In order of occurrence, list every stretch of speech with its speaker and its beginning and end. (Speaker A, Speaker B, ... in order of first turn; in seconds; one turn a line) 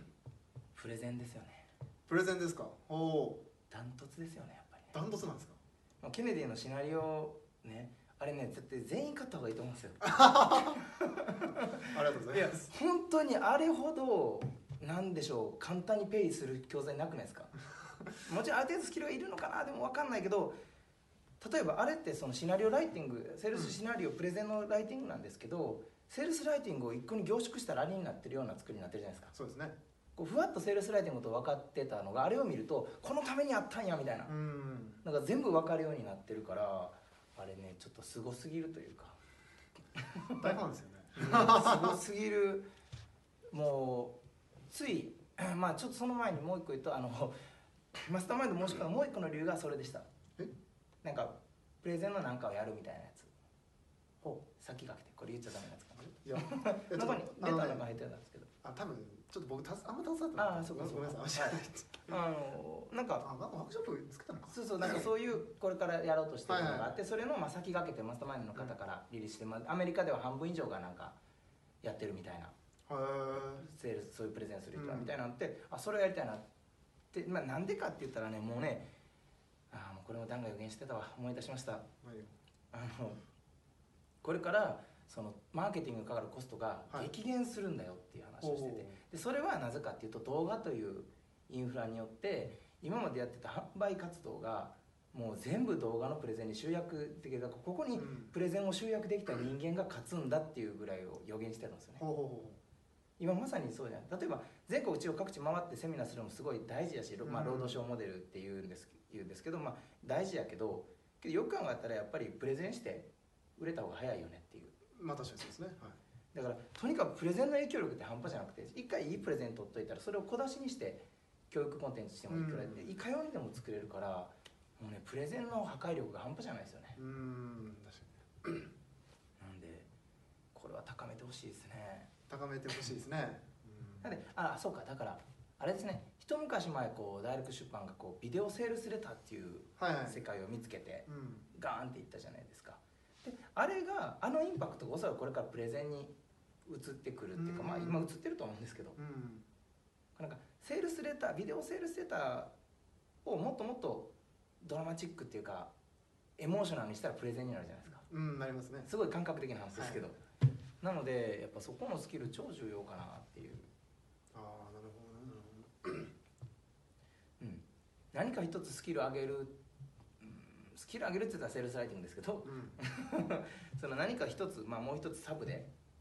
Speaker A: 0.7-1.7
Speaker B: 2.1-3.4
Speaker A: 3.7-4.9
Speaker B: 4.9-5.6
Speaker A: 6.0-17.6
Speaker B: 10.0-10.8
Speaker B: 11.9-12.7
Speaker A: 18.2-20.6
Speaker A: 21.4-29.3
Speaker B: 29.3-29.8
Speaker A: 30.1-34.3
Speaker B: 34.3-35.0
Speaker A: 35.0-39.2
Speaker A: 40.0-40.5
Speaker B: 40.4-42.0
Speaker A: 41.1-42.7
Speaker A: 43.5-47.4
Speaker A: 47.9-50.0
Speaker A: 51.0-53.3
Speaker A: 54.5-58.5
Speaker B: 56.0-57.9
Speaker B: 58.6-62.2
Speaker A: 60.4-63.3
Speaker B: 63.2-65.1
Speaker A: 64.5-71.2
Speaker B: 66.5-66.9
Speaker A: 71.8-72.5
Speaker B: 72.9-73.7
Speaker A: 73.5-76.5
Speaker B: 74.7-75.2
Speaker A: 77.1-78.9
Speaker A: 79.7-81.8
Speaker B: 82.0-82.3
Speaker A: 82.7-83.2
Speaker A: 84.2-102.0
Speaker B: 88.4-89.0
Speaker B: 98.0-98.3
Speaker B: 102.0-102.6
Speaker A: 103.2-114.7
Speaker B: 107.2-107.8
Speaker B: 114.9-116.0
Speaker A: 116.3-127.0
Speaker B: 122.3-122.9
Speaker B: 127.0-128.7
Speaker A: 129.4-129.9
Speaker A: 130.5-132.1
Speaker B: 132.3-134.2
Speaker A: 134.0-146.1
Speaker B: 139.8-140.2
Speaker B: 141.1-141.5
Speaker A: 146.7-149.0
Speaker B: 147.3-148.1
Speaker B: 148.9-149.4
Speaker A: 150.2-152.5
Speaker A: 153.2-155.7
Speaker A: 156.4-158.0
Speaker B: 158.1-158.9
Speaker A: 158.8-160.2
Speaker B: 159.7-160.0
Speaker A: 160.8-163.7
Speaker B: 164.3-166.1
Speaker A: 167.4-169.5
Speaker A: 170.2-175.7
Speaker B: 172.4-172.8